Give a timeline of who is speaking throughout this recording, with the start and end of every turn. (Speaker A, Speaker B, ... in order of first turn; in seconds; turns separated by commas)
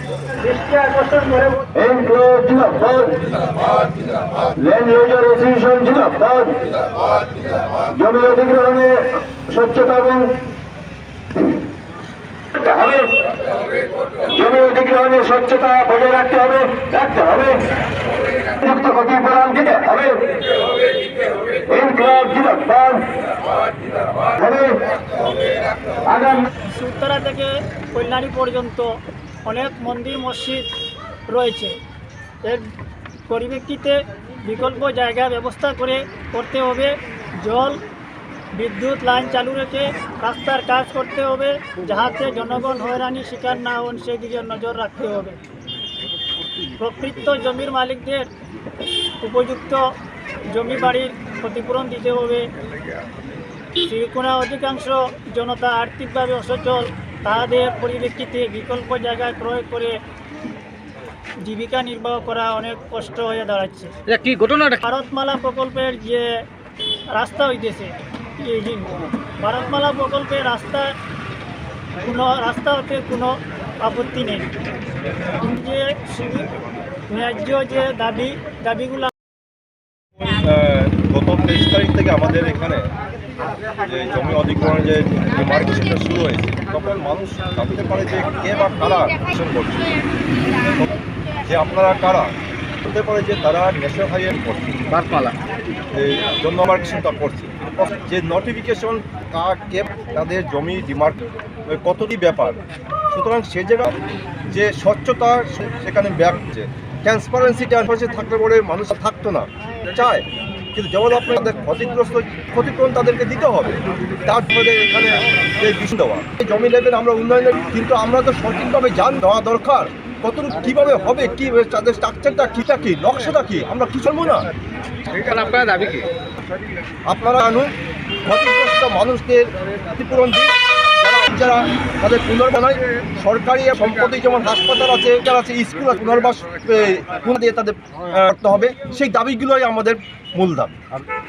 Speaker A: 0.4-1.7, Speaker B: 1.8-3.4, Speaker B: 4.4-6.8, Speaker B: 7.7-10.3, Speaker B: 12.5-13.3, Speaker B: 14.2-17.7, Speaker B: 18.6-20.4, Speaker B: 21.5-23.1, Speaker B: 24.2-24.9, Speaker B: 26.1-26.5, Speaker A: 26.6-28.9, Speaker A: 29.4-30.7, Speaker A: 31.3-31.7, Speaker A: 33.3-37.8, Speaker A: 38.5-45.4, Speaker A: 46.8-48.3, Speaker A: 49.2-49.9, Speaker A: 50.5-52.5, Speaker A: 53.8-60.0, Speaker A: 61.4-63.9, Speaker C: 64.1-64.8, Speaker A: 64.8-66.3, Speaker A: 67.1-70.9, Speaker A: 72.0-74.5, Speaker A: 75.3-76.5, Speaker A: 77.1-79.1, Speaker D: 80.2-82.9, Speaker D: 83.8-90.0, Speaker D: 90.6-90.9, Speaker D: 91.5-92.3, Speaker D: 92.8-94.8, Speaker C: 94.9-95.4, Speaker D: 95.9-102.6, Speaker D: 103.1-124.5, Speaker C: 125.1-126.1, Speaker D: 127.1-127.7, Speaker D: 128.2-140.8